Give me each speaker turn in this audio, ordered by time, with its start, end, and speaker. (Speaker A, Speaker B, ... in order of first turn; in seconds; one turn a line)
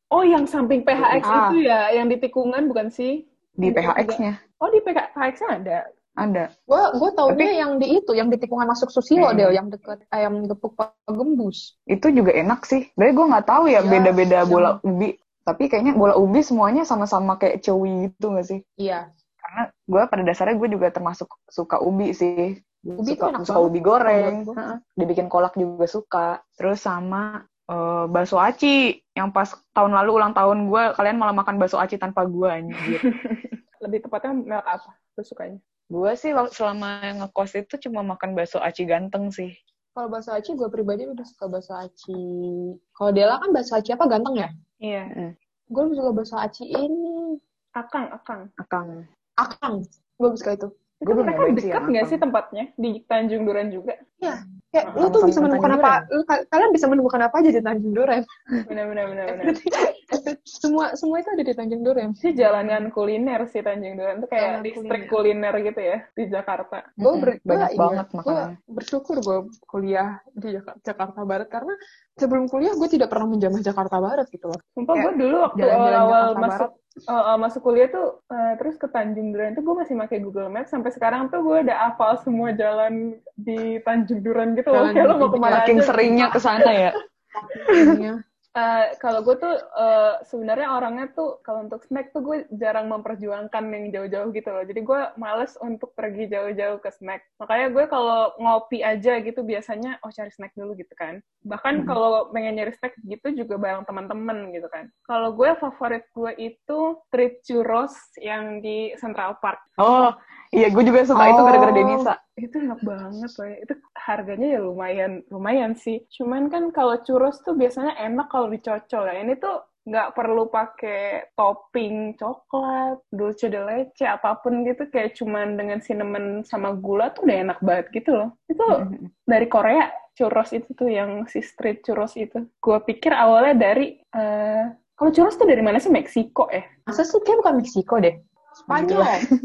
Speaker A: 0.1-5.8
Speaker B: 0.9-1.3
Speaker C: 1.2-1.6
Speaker B: 3.6-4.4
Speaker B: 6.2-6.5
Speaker C: 6.7-11.7
Speaker B: 9.2-9.6
Speaker B: 11.9-18.6
Speaker C: 13.7-14.8
Speaker C: 18.8-19.0
Speaker B: 19.4-33.0
Speaker C: 23.0-24.6
Speaker A: 33.0-35.6
Speaker B: 35.9-39.5
Speaker C: 40.0-44.5
Speaker A: 44.8-45.1
Speaker C: 45.7-47.4
Speaker A: 47.8-48.5
Speaker B: 48.6-49.1
Speaker C: 49.4-50.7
Speaker A: 51.0-54.0
Speaker B: 51.0-52.2
Speaker C: 54.2-58.2
Speaker B: 55.0-56.1
Speaker A: 58.7-59.6
Speaker C: 59.3-62.6
Speaker A: 62.2-66.8
Speaker C: 64.4-65.2
Speaker B: 67.0-68.6
Speaker C: 67.0-76.7
Speaker A: 74.8-86.7
Speaker C: 84.7-86.4
Speaker B: 85.4-87.0
Speaker C: 87.3-88.2
Speaker A: 88.6-109.6
Speaker B: 109.8-112.2
Speaker A: 111.2-136.7
Speaker B: 128.7-129.1
Speaker C: 136.9-139.2
Speaker B: 138.7-139.1